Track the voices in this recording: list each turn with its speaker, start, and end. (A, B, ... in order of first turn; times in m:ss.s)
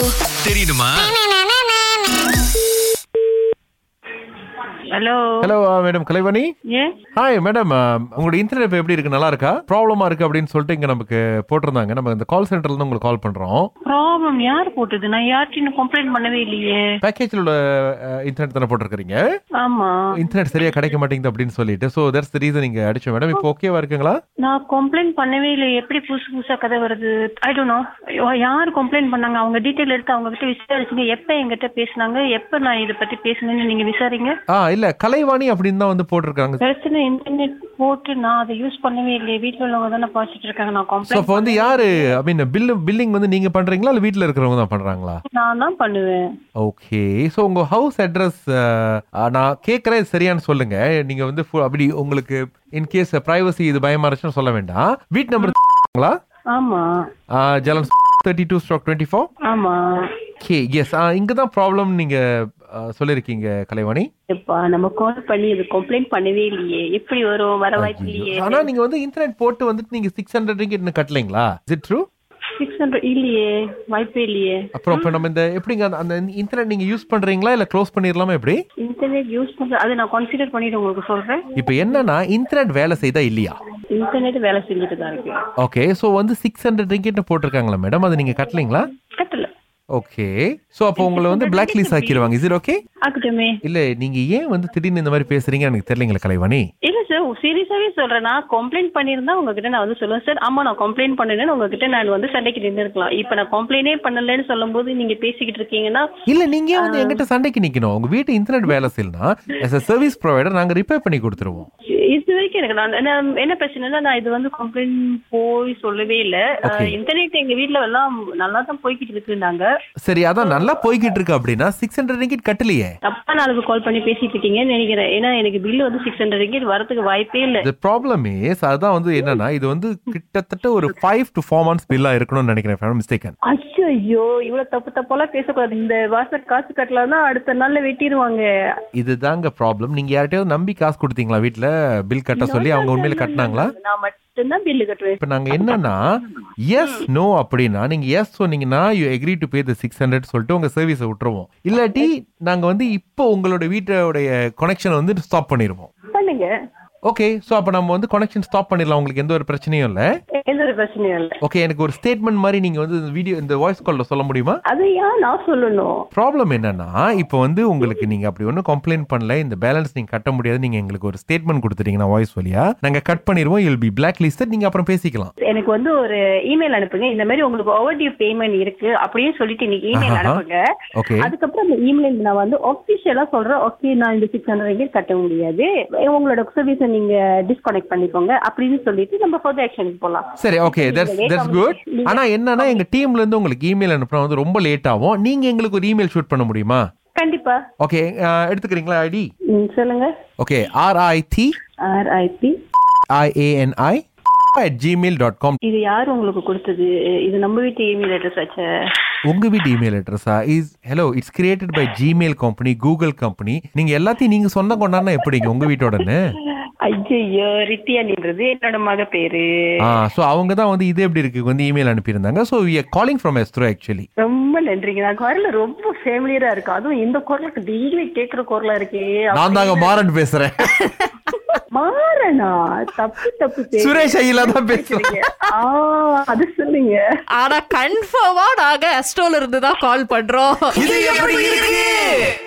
0:00.4-0:01.2 A
0:04.9-0:05.5 B
0:05.4-0:06.5 A
0:07.2-0:13.7 A
0:13.9-0:16.8 B
0:17.0-0:19.2 A
0:19.6-0:20.0 B
0:20.1-0:24.2 A
0:24.4-0:34.3 B
0:34.5-0:36.6 A
0:36.6-0:42.1 B
0:41.1-0:45.2 A
0:45.3-0:46.2 B
0:46.6-0:56.2 A
0:56.5-0:57.0 B
0:57.3-0:59.3 A
0:59.4-1:00.0 B
1:00.4-1:04.1 A
1:04.3-1:08.7 B
1:07.8-1:12.0 A
1:12.6-1:15.2 B
1:14.7-1:18.6 A
1:18.8-1:21.4 B
1:21.6-1:23.6 A
1:23.9-1:25.4 B
1:25.6-1:28.9 A
1:29.1-1:29.5 B
1:29.9-1:32.8 A
1:31.0-1:32.3 B
1:33.0-1:33.6 B
1:33.6-1:36.6 A
1:36.8-1:46.0 B
1:46.3-1:51.7 A
1:46.8-1:47.2 B
1:52.1-1:59.7 B
1:56.6-1:57.0 A
2:00.0-2:02.9 A
2:03.0-2:07.7 B
2:07.6-2:13.3 A
2:13.5-2:18.4 B
2:19.0-2:23.7 A
2:22.4-2:25.2 B
2:25.2-2:26.0 A
2:26.7-2:35.9 A
2:26.8-2:27.0 B
2:36.1-2:36.5 B
2:37.1-2:40.0 A
2:40.4-2:41.3 B
2:41.4-2:44.6 A
2:44.7-2:46.0 B
2:46.1-2:55.3 A
2:55.5-3:00.6 B
2:59.9-3:00.4 A
3:01.0-3:01.3 A
3:01.2-3:12.8 B
3:10.4-3:16.8 A
3:17.1-3:17.6 B
3:17.8-3:19.3 A
3:19.5-3:20.1 B
3:20.4-3:21.5 A
3:21.8-3:22.5 B
3:23.1-3:24.0 A
3:24.5-3:25.6 A
3:25.6-3:28.7 B
3:29.3-3:36.3 A
3:36.8-3:39.4 B
3:39.8-3:44.1 A
3:44.2-3:50.0 B
3:49.3-3:50.9 A
3:51.7-3:57.0 B
3:53.8-3:55.2 A
3:57.4-4:02.2 C
4:00.8-4:02.2 A